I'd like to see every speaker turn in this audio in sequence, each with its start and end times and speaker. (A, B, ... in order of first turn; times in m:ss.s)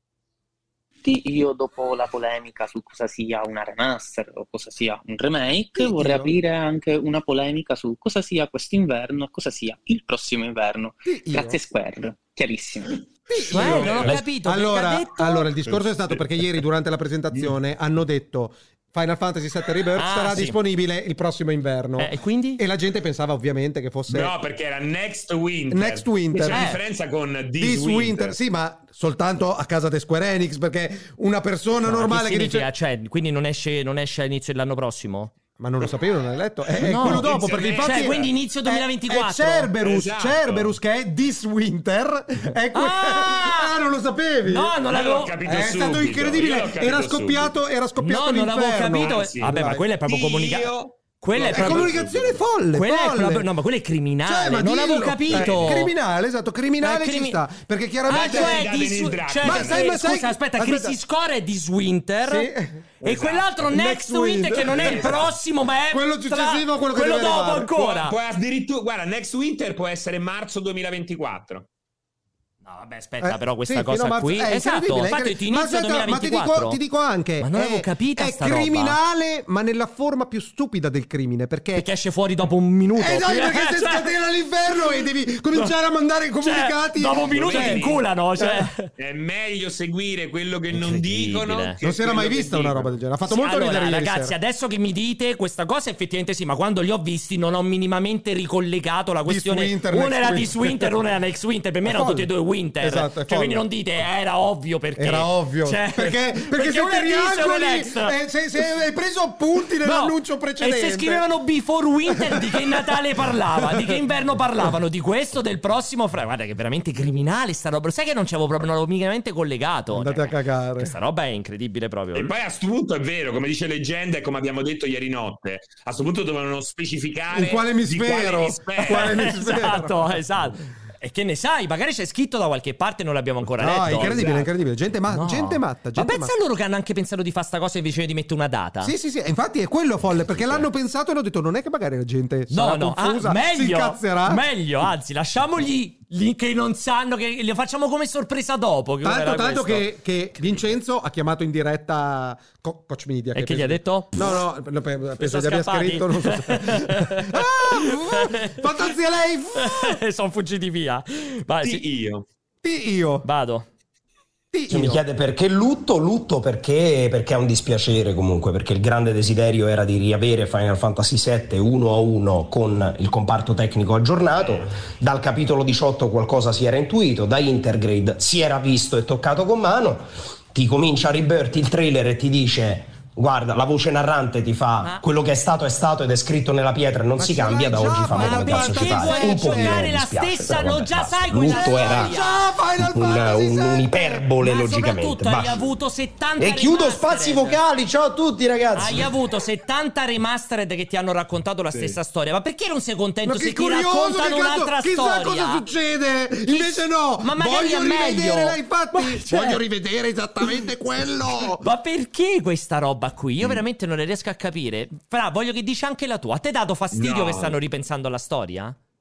0:01.0-0:13.0 A
0:05.8-0:06.4 B
0:11.0-0:11.6 B
0:13.3-0:24.3 B
0:13.4-0:14.2 C
0:13.5-0:15.5 D
0:20.0-0:20.6 D
0:22.0-0:22.6 D
0:24.1-0:28.4 C
0:25.7-0:26.7 B
0:26.5-0:26.8 D
0:27.6-0:32.7 B
0:31.8-0:35.3 D
0:35.6-0:44.7 B
0:36.8-0:38.3 C
0:36.8-0:39.7 D
0:39.8-0:40.8 C
0:42.7-0:43.7 D
0:44.4-0:45.3 D
0:44.9-0:47.6 C
0:45.4-0:49.8 B
0:48.0-0:51.9 D
0:49.0-0:52.4 C
0:51.5-0:53.5 B
0:52.7-0:55.9 D
0:54.2-0:58.7 B
0:55.3-0:55.8 C
0:56.8-0:57.4 D
0:58.1-1:02.5 D
0:58.1-0:59.8 C
0:59.4-1:01.0 B
1:02.2-1:02.8 B
1:03.0-1:03.5 C
1:03.0-1:08.2 D
1:03.7-1:05.3 B
1:04.6-1:05.3 C
1:05.9-1:07.7 B
1:07.8-1:11.6 C
1:12.6-1:16.8 D
1:13.2-1:21.9 B
1:17.4-1:19.0 D
1:21.7-1:24.1 D
1:23.0-1:27.8 B
1:26.4-1:28.9 D
1:27.3-1:28.1 C
1:28.4-1:28.7 B
1:29.0-1:32.9 C
1:30.7-1:31.8 D
1:31.8-1:34.3 B
1:33.3-1:48.1 D
1:39.2-1:40.9 B
1:41.8-1:43.7 B
1:45.0-1:51.2 B
1:49.8-2:02.3 D
1:52.2-1:52.8 B
1:53.6-1:53.9 B
1:59.9-2:00.9 B
2:02.1-2:09.2 C
2:07.3-2:10.4 B
2:08.8-2:14.1 D
2:13.6-2:16.3 B
2:13.9-2:14.5 C
2:15.1-2:18.9 D
2:18.8-2:24.4 B
2:20.2-2:20.7 D
2:22.5-2:29.9 D
2:29.0-2:40.0 B
2:33.3-2:34.4 D
2:35.2-2:38.9 D
2:39.5-2:41.8 D
2:41.6-2:42.2 C
2:42.6-2:43.2 B
2:43.2-2:43.6 D
2:44.5-2:45.0 B
2:44.7-3:12.1 E
3:07.1-3:10.0 B
3:08.2-3:12.5 D
3:11.3-3:14.3 B
3:12.8-3:15.7 E
3:14.4-3:17.6 D
3:16.4-3:19.1 E
3:18.7-3:25.6 D
3:23.2-3:31.6 B
3:26.5-3:29.6 D
3:31.4-3:38.8 D
3:36.9-3:37.6 C